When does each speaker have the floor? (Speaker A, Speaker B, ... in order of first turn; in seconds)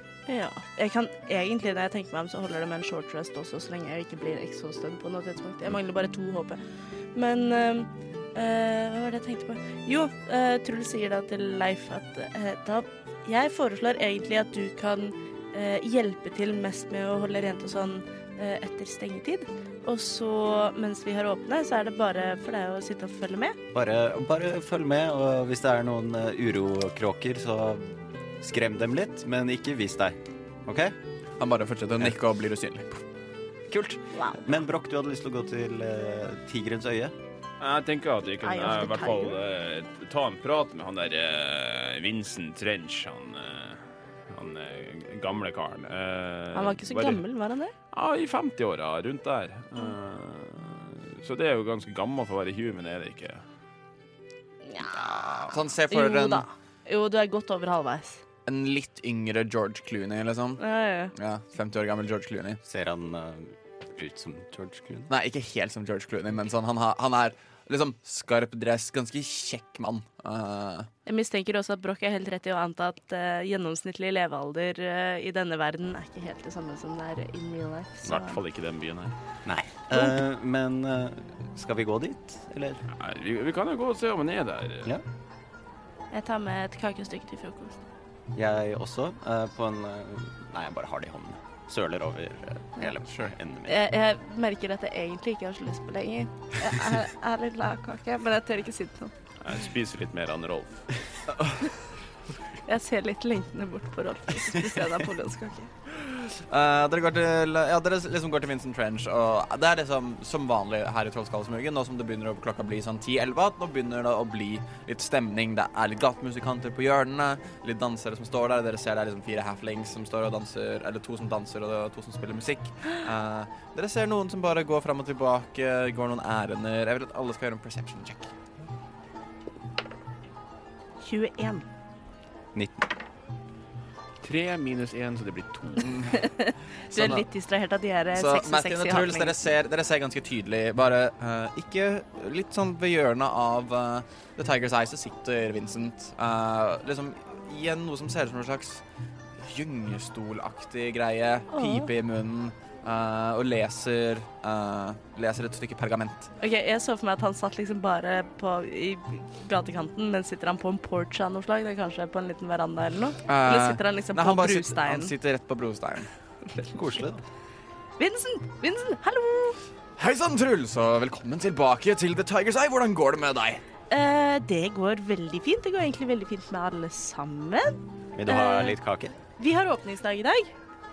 Speaker A: 0.3-6.6, 7.1-23.6, 34.1-34.4, 38.4-39.4, 46.5-47.7, 54.6-58.2, 60.6-61.1, 71.0-78.4, 86.1-87.8, 93.7-99.1, 102.7-105.7, 131.0-131.7, 136.1-139.5, 151.5-151.9, 156.4-165.1, 168.0-169.6, 173.9-178.8, 179.4-180.5
Speaker B: 23.7-30.9, 33.7-37.1, 62.6-65.1, 79.4-82.8, 88.3-93.8, 132.6-132.9, 166.7-167.2, 178.1-179.2
Speaker C: 31.4-33.0, 55.4-56.5, 58.5-60.6, 61.1-62.6, 65.1-70.9, 101.3-101.6, 105.9-128.3, 135.8-136.2, 136.9-137.2, 138.1-148.8, 149.4-156.3, 163.3-166.1, 170.0-173.6
Speaker D: 37.6-47.2, 47.9-53.4, 78.0-79.1, 82.9-84.9, 99.4-100.9, 134.2-136.0